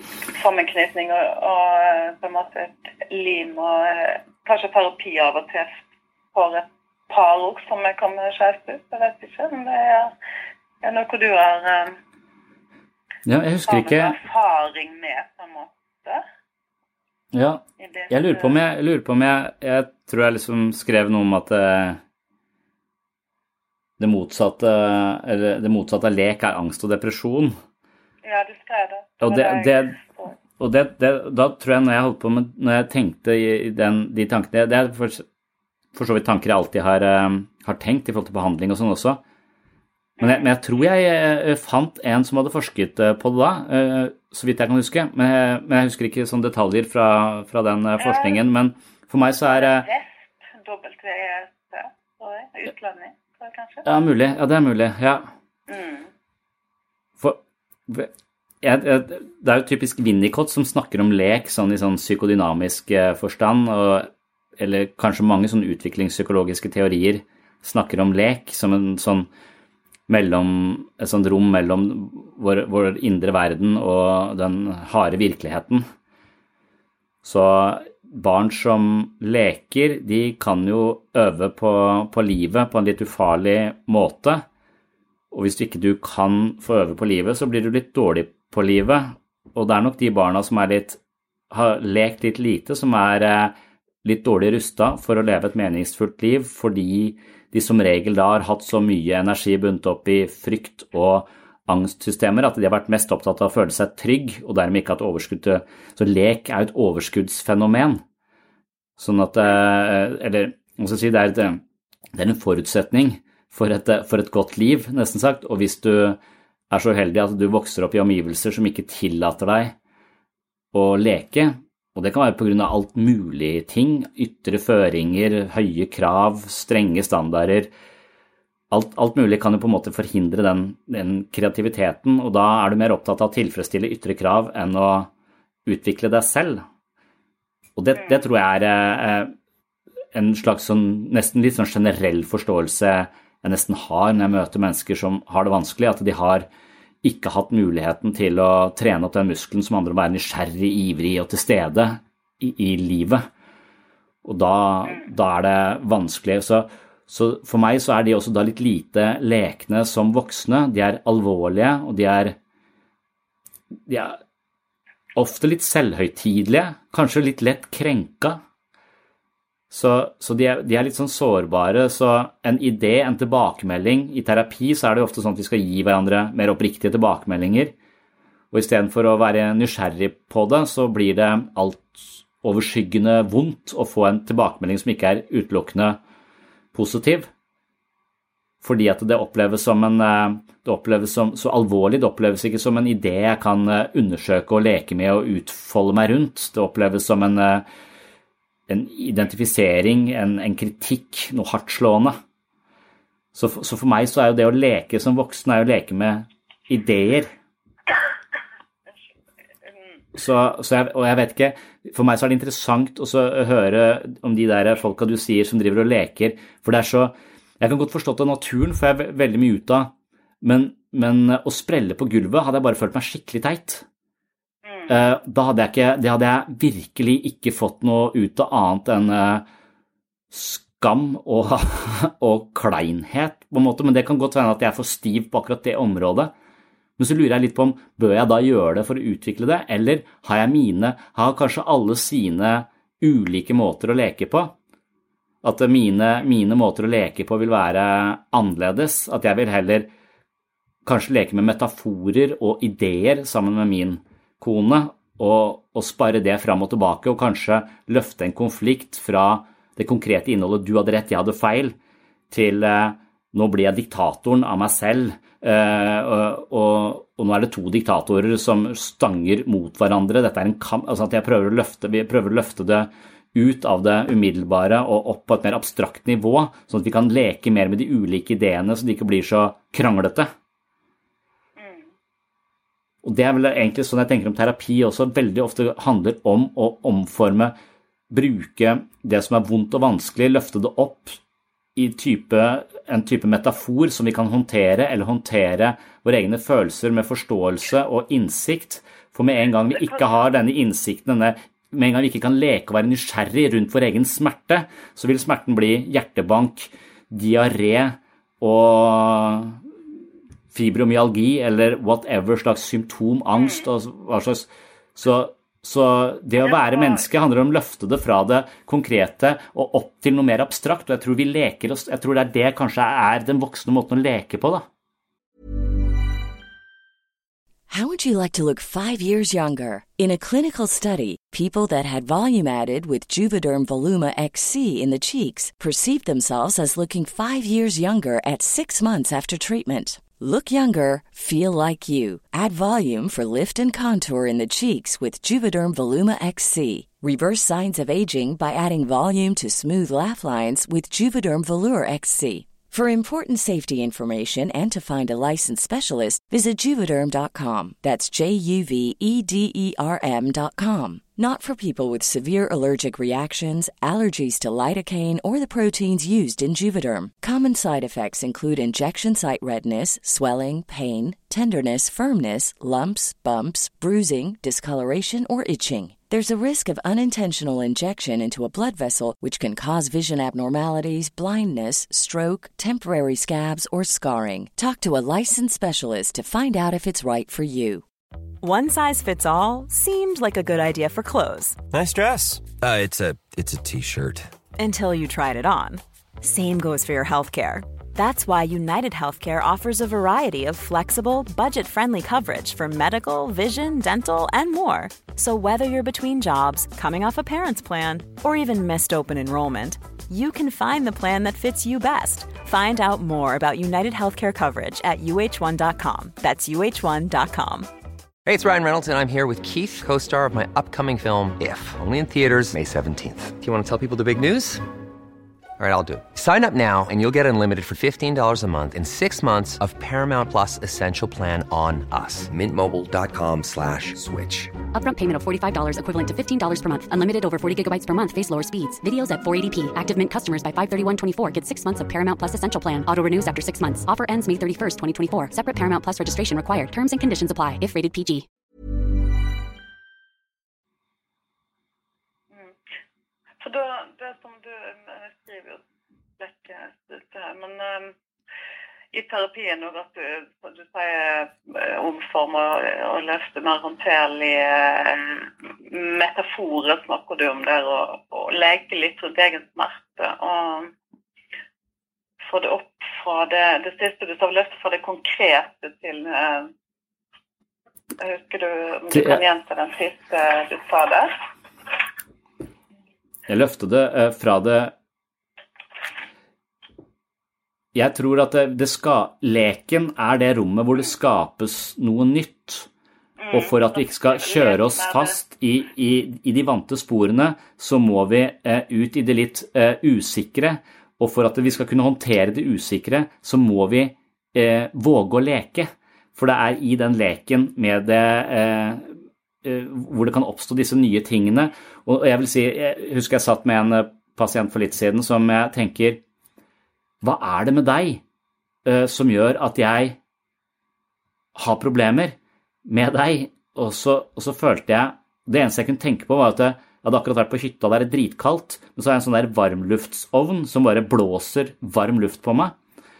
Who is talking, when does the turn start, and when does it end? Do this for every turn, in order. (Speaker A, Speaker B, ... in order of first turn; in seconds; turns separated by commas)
Speaker A: 0.3-5.8, Speaker A: 6.3-10.1, Speaker A: 10.8-11.9, Speaker B: 13.2-14.2, Speaker A: 13.7-16.2, Speaker B: 17.3-22.0, Speaker A: 17.8-18.5, Speaker B: 24.0-27.5, Speaker A: 28.2-30.3, Speaker B: 29.2-29.9, Speaker B: 30.6-35.2, Speaker B: 35.9-39.2, Speaker A: 40.2-40.5, Speaker B: 40.2-49.9, Speaker A: 48.0-48.4, Speaker A: 49.5-53.8, Speaker B: 53.8-55.3, Speaker A: 55.7-56.1, Speaker B: 57.2-58.1, Speaker B: 58.6-69.3, Speaker B: 70.1-75.8, Speaker B: 77.2-84.4, Speaker B: 85.3-91.0, Speaker B: 91.5-108.0, Speaker B: 109.0-111.6, Speaker B: 112.1-116.2, Speaker B: 116.7-119.7, Speaker B: 120.7-127.7, Speaker B: 128.7-135.1, Speaker B: 135.7-136.6, Speaker B: 137.8-139.3, Speaker A: 138.0-138.2, Speaker B: 140.1-146.4, Speaker B: 147.0-153.2, Speaker B: 154.2-162.3, Speaker B: 163.9-164.2, Speaker B: 165.1-168.4, Speaker B: 169.7-177.7, Speaker B: 178.5-186.0, Speaker B: 186.7-187.3, Speaker B: 188.6-197.6, Speaker B: 198.7-202.2, Speaker B: 203.3-207.3, Speaker A: 209.6-210.0, Speaker B: 210.2-219.9, Speaker B: 220.4-223.8, Speaker A: 224.6-224.9, Speaker B: 224.9-229.4, Speaker B: 230.3-236.3, Speaker B: 237.0-244.5, Speaker B: 245.4-249.9, Speaker B: 250.8-261.7, Speaker B: 262.3-280.3, Speaker A: 281.6-281.9, Speaker B: 283.0-287.5, Speaker B: 288.1-291.2, Speaker B: 291.8-309.6, Speaker A: 299.7-300.1, Speaker B: 310.5-324.6, Speaker A: 313.3-313.6, Speaker A: 316.4-317.1, Speaker C: 327.7-387.8, Speaker D: 388.4-391.6, Speaker E: 391.7-394.3, Speaker D: 394.6-417.7, Speaker F: 418.2-424.6, Speaker F: 425.6-434.6, Speaker G: 434.7-448.2, Speaker A: 453.4-455.6, Speaker A: 456.2-457.9, Speaker A: 458.9-470.7, Speaker A: 472.2-476.5, Speaker A: 478.0-481.1, Speaker B: 478.9-479.2, Speaker B: 483.3-484.7, Speaker B: 487.7-492.7, Speaker A: 493.2-495.2, Speaker B: 493.3-508.9, Speaker B: 509.4-516.0, Speaker B: 517.0-518.0, Speaker B: 518.6-520.0, Speaker B: 521.4-532.5